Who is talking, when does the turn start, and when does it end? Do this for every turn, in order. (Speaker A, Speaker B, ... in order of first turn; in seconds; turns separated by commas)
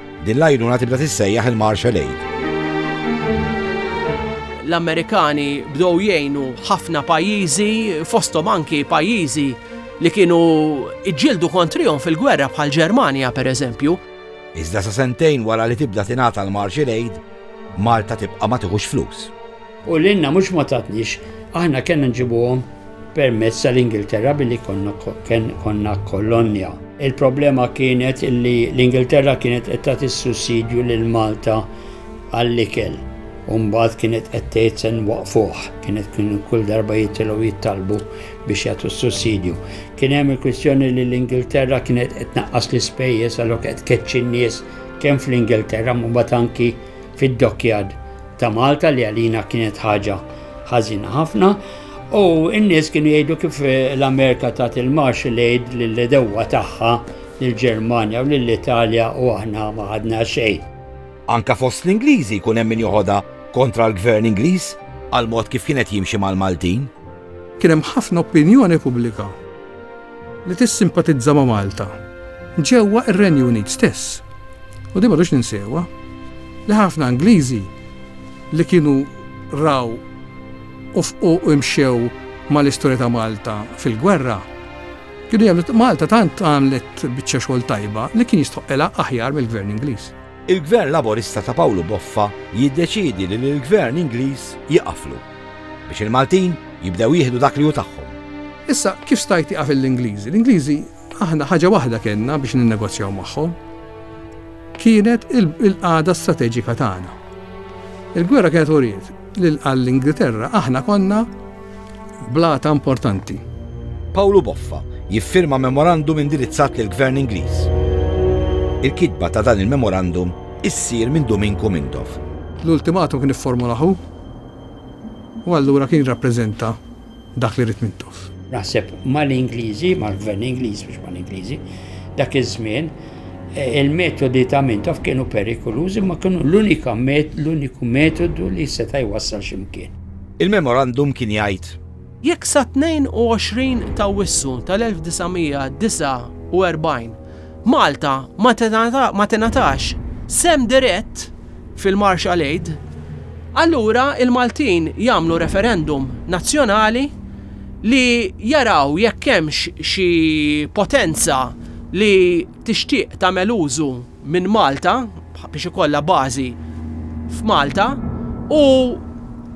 Speaker A: 0.2-2.2, Speaker B: 4.6-14.0, Speaker A: 14.6-17.2, Speaker A: 17.8-19.3, Speaker C: 19.9-31.7, Speaker C: 32.3-60.7, Speaker A: 61.3-66.9, Speaker D: 67.6-69.3, Speaker D: 70.5-71.9, Speaker D: 72.6-74.2, Speaker D: 74.9-75.9, Speaker D: 76.7-77.7, Speaker D: 78.5-80.0, Speaker D: 80.9-84.5, Speaker D: 85.3-90.1, Speaker A: 90.5-95.2, Speaker A: 95.9-98.2, Speaker D: 98.7-103.6, Speaker D: 104.8-107.1, Speaker D: 108.1-111.3, Speaker D: 112.3-113.4, Speaker A: 114.1-117.7, Speaker A: 118.8-122.2, Speaker D: 122.6-124.0, Speaker D: 125.4-126.8, Speaker D: 127.4-128.3, Speaker C: 128.5-131.6, Speaker C: 132.2-132.9, Speaker C: 133.5-139.9, Speaker A: 140.4-141.8, Speaker B: 142.2-152.8, Speaker B: 153.5-157.1, Speaker B: 157.8-166.6, Speaker B: 167.3-169.0